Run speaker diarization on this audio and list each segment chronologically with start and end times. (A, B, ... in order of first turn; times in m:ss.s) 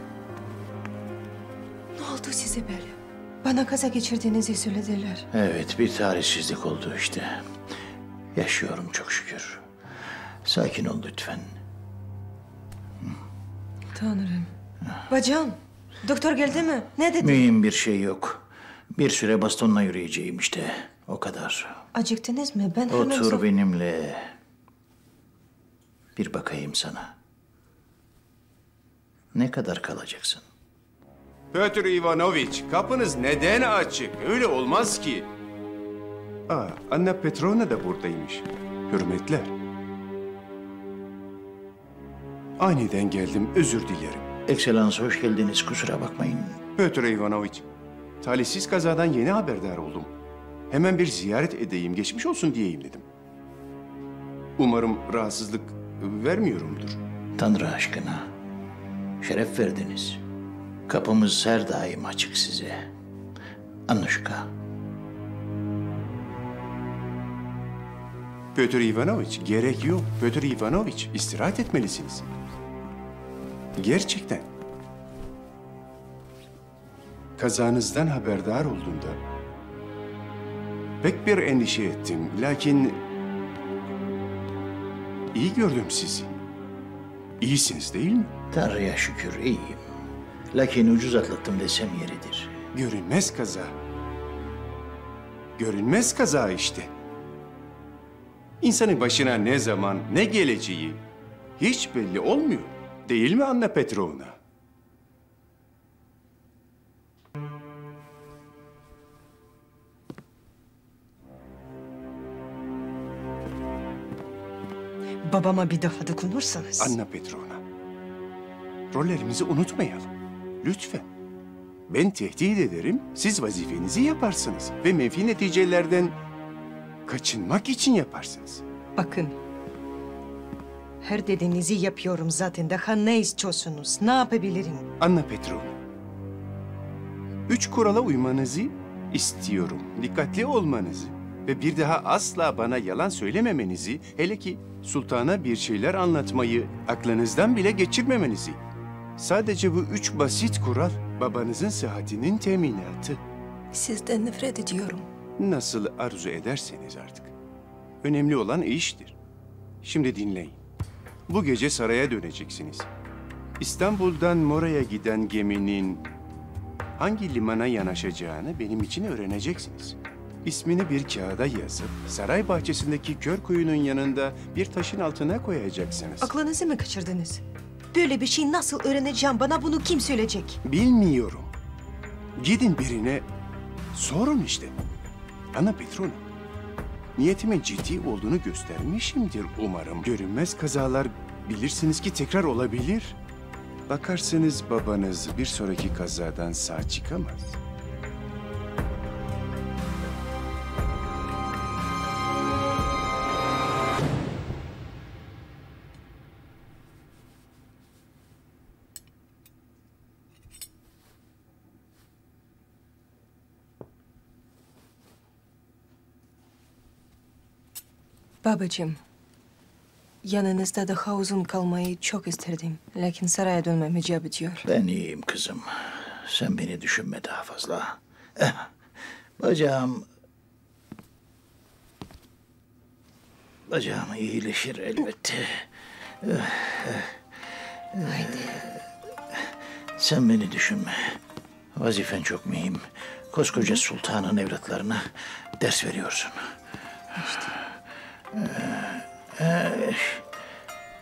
0:02.0-0:05.3 A
0:05.3-0:07.5 B
0:08.3-0:09.6 B
0:10.4-0:11.6 B
0:13.9-0:14.5 A
0:15.1-0:17.4 A
0:17.2-0:21.8 B
0:21.9-0:23.5 A
0:22.9-0:24.3 B
0:26.2-0:27.1 B
0:29.3-0:30.4 B
0:31.5-0:35.3 C
0:36.5-0:39.5 C
0:42.6-0:44.3 C
0:44.4-0:46.6 B
0:46.8-0:47.6 C
0:48.2-0:50.1 C
0:50.7-0:53.0 C
0:54.6-0:57.0 C
0:57.4-0:58.3 B
0:59.2-1:00.2 B
1:00.9-1:02.9 B
1:03.9-1:04.5 B
1:08.5-1:12.2 C
1:13.8-1:14.5 C
1:17.4-1:19.2 C
1:21.0-1:23.0 C
1:25.3-1:26.3 C
1:27.4-1:28.3 C
1:28.5-1:29.9 B
1:30.5-1:32.6 B
1:32.7-1:33.7 C
1:35.6-1:36.9 C
1:38.6-1:41.0 C
1:41.6-1:44.4 C
1:55.2-1:57.0 A
1:56.8-1:57.6 C
1:58.9-2:01.1 C
2:01.9-2:06.1 C
2:07.0-2:08.6 C
2:09.0-2:09.4 A
2:11.0-2:14.9 A
2:15.0-2:15.7 C
2:17.5-2:28.6 C
2:29.2-2:33.2 C
2:33.7-2:35.1 A
2:35.4-2:37.3 C
2:38.0-2:39.1 C
2:39.8-2:40.6 C
2:41.3-2:42.9 C
2:43.6-2:46.0 C
2:47.0-2:56.3 C
2:56.2-3:00.6 A
3:00.6-3:01.5 C
3:02.4-3:03.2 C
3:03.9-3:04.7 C
3:05.5-3:06.2 C
3:07.2-3:13.2 C
3:13.9-3:17.6 C
3:38.4-3:39.0 A
3:40.2-3:44.6 A
3:44.6-3:48.7 B
3:49.4-3:50.0 B
3:53.7-3:55.7 B
3:56.2-3:57.2 B
3:57.9-3:58.8 B
3:58.1-3:58.6 A
4:00.0-4:01.2 B
4:01.8-4:06.5 B
4:07.2-4:07.5 A
4:08.3-4:10.2 B